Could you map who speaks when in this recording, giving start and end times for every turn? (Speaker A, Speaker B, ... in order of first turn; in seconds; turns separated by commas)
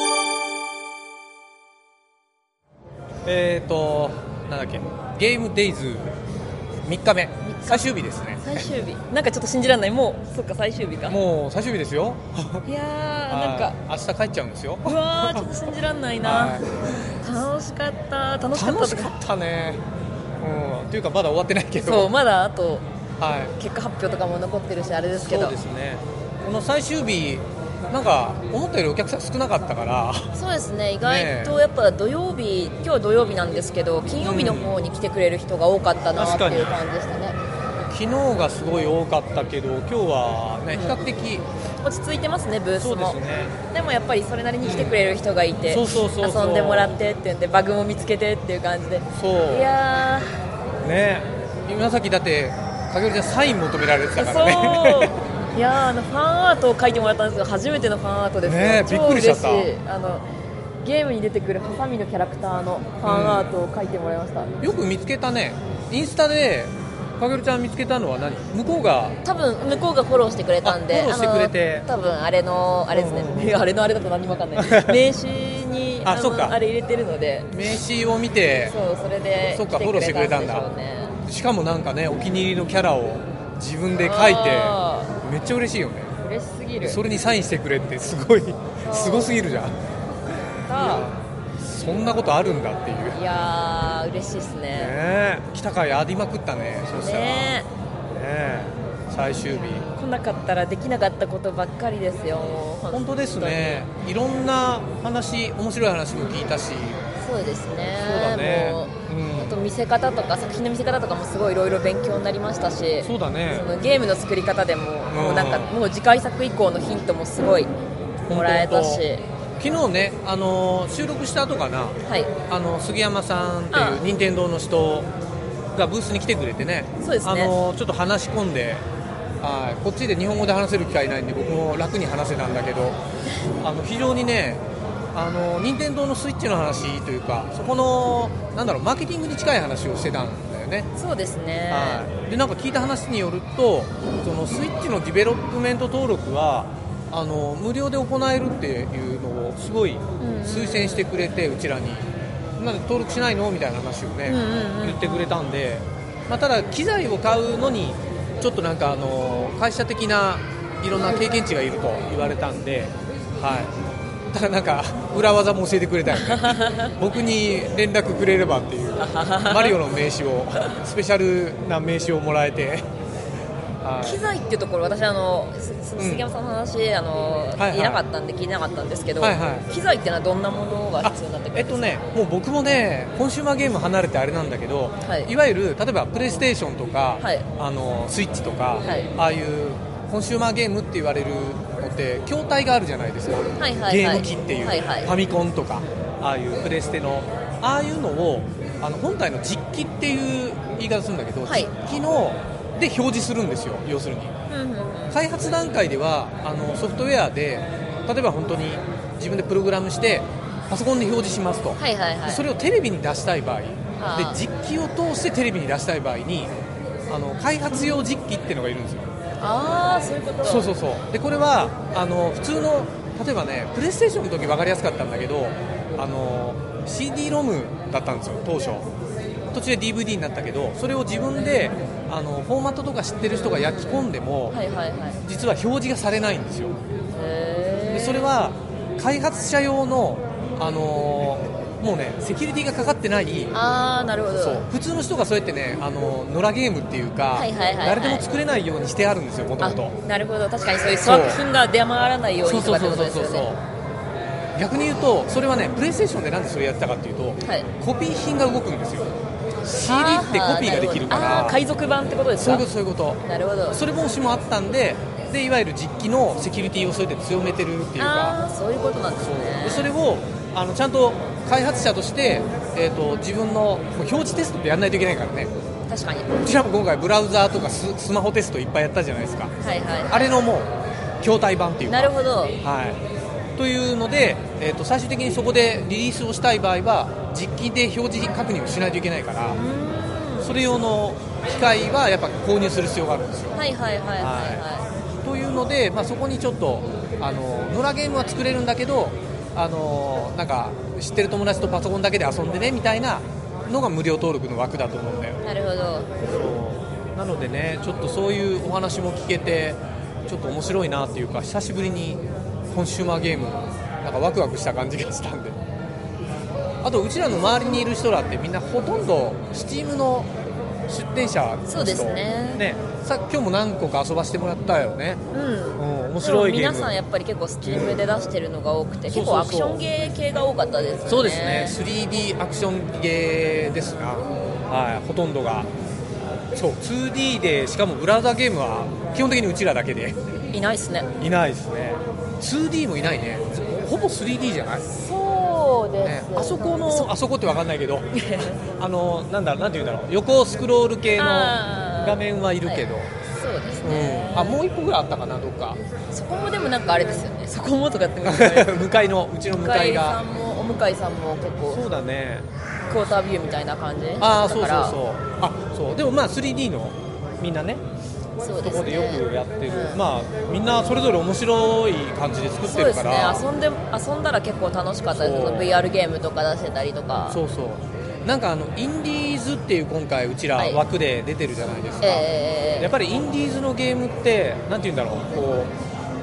Speaker A: 3.2-6.1, Speaker A: 6.8-8.7, Speaker B: 7.4-11.2, Speaker A: 11.1-12.7, Speaker B: 12.7-13.8, Speaker A: 13.3-15.5, Speaker B: 14.8-16.6, Speaker A: 16.2-17.1, Speaker B: 17.2-19.1, Speaker A: 18.5-19.8, Speaker A: 20.4-22.1, Speaker B: 21.8-22.9, Speaker A: 23.2-23.5, Speaker B: 23.6-25.6, Speaker A: 25.1-30.4, Speaker B: 30.3-37.4, Speaker A: 31.0-31.6, Speaker A: 34.2-34.8, Speaker A: 36.2-36.7, Speaker A: 37.8-41.4, Speaker B: 40.7-41.0, Speaker B: 41.8-50.4, Speaker A: 42.8-43.6, Speaker A: 44.6-45.0, Speaker A: 45.7-47.0, Speaker A: 49.1-49.7, Speaker A: 50.8-55.2, Speaker B: 54.2-60.3, Speaker A: 58.4-59.7, Speaker B: 60.8-64.5, Speaker A: 63.0-63.5, Speaker A: 64.6-69.2, Speaker B: 69.2-77.5, Speaker A: 70.6-71.9, Speaker A: 72.9-73.6, Speaker A: 74.6-75.0, Speaker A: 76.0-76.6, Speaker A: 77.5-78.8, Speaker B: 78.7-81.2, Speaker A: 79.5-80.7, Speaker A: 81.2-86.1, Speaker B: 84.0-85.2, Speaker B: 86.2-87.0, Speaker A: 86.8-89.8, Speaker B: 88.8-89.5, Speaker B: 90.6-91.1, Speaker A: 90.7-93.2, Speaker B: 93.1-95.0, Speaker A: 94.7-97.6, Speaker B: 96.9-97.7, Speaker A: 98.1-99.9, Speaker B: 99.9-103.8, Speaker A: 102.9-107.0, Speaker B: 107.2-117.7, Speaker A: 108.0-109.6, Speaker A: 113.0-113.7, Speaker A: 115.1-115.8, Speaker A: 118.3-119.0, Speaker B: 118.3-119.3, Speaker A: 119.6-122.0, Speaker B: 122.1-122.3, Speaker A: 122.5-125.1, Speaker B: 123.7-124.0, Speaker A: 125.7-128.8, Speaker B: 127.0-127.5, Speaker A: 129.4-133.0, Speaker A: 133.6-134.6, Speaker A: 135.1-140.9, Speaker B: 140.9-142.1, Speaker A: 141.7-163.7, Speaker B: 150.2-151.1, Speaker B: 154.2-155.0, Speaker A: 164.3-172.9, Speaker B: 166.1-166.9, Speaker B: 169.0-169.8, Speaker A: 173.8-174.2, Speaker B: 174.0-181.9, Speaker A: 176.0-176.3, Speaker A: 177.6-178.0, Speaker A: 179.2-179.7, Speaker A: 181.0-204.3, Speaker B: 185.0-185.3, Speaker B: 187.2-187.5, Speaker B: 188.8-189.1, Speaker B: 193.6-195.1, Speaker B: 201.4-201.7, Speaker B: 204.5-205.2, Speaker A: 205.1-216.5, Speaker B: 211.8-212.5, Speaker B: 214.0-214.4, Speaker A: 217.1-219.1, Speaker B: 219.4-220.7, Speaker A: 220.4-228.9, Speaker A: 229.5-234.6, Speaker B: 233.9-235.2, Speaker A: 235.2-236.8, Speaker B: 237.1-238.3, Speaker A: 237.9-243.6, Speaker B: 243.5-244.6, Speaker A: 244.4-249.9, Speaker B: 247.3-248.3, Speaker B: 249.6-253.5, Speaker A: 251.0-251.4, Speaker A: 252.4-253.6, Speaker A: 254.6-259.1, Speaker B: 257.4-257.7, Speaker A: 259.6-261.6, Speaker B: 259.8-262.7, Speaker A: 262.4-268.4, Speaker B: 263.2-263.8, Speaker B: 268.0-269.9, Speaker A: 269.2-275.5, Speaker B: 275.9-276.4, Speaker A: 276.4-279.5, Speaker B: 279.6-280.4, Speaker A: 280.1-283.0, Speaker B: 281.9-282.6, Speaker A: 283.6-289.6, Speaker B: 289.5-290.8, Speaker A: 290.4-293.6, Speaker B: 293.5-294.9, Speaker A: 294.2-294.6, Speaker A: 295.2-305.4, Speaker B: 305.4-306.1, Speaker A: 306.2-315.6, Speaker A: 316.8-320.3, Speaker A: 320.9-325.2, Speaker B: 321.7-322.6, Speaker B: 325.3-331.8, Speaker A: 325.8-327.0, Speaker A: 327.6-328.0, Speaker A: 329.1-329.9, Speaker A: 331.1-335.7, Speaker A: 336.5-340.2, Speaker B: 340.5-341.1, Speaker A: 341.2-344.9, Speaker B: 344.9-347.1, Speaker A: 346.0-353.1, Speaker B: 348.1-348.6, Speaker B: 351.1-354.6, Speaker A: 353.8-355.8, Speaker B: 356.1-358.9, Speaker A: 358.2-360.2, Speaker B: 359.5-361.9, Speaker A: 361.7-362.5, Speaker B: 362.9-365.0, Speaker A: 364.2-367.8, Speaker B: 368.4-370.0, Speaker A: 368.6-373.5, Speaker B: 372.6-377.4, Speaker A: 375.1-375.8, Speaker A: 377.3-382.3, Speaker B: 382.0-382.9, Speaker A: 382.8-385.7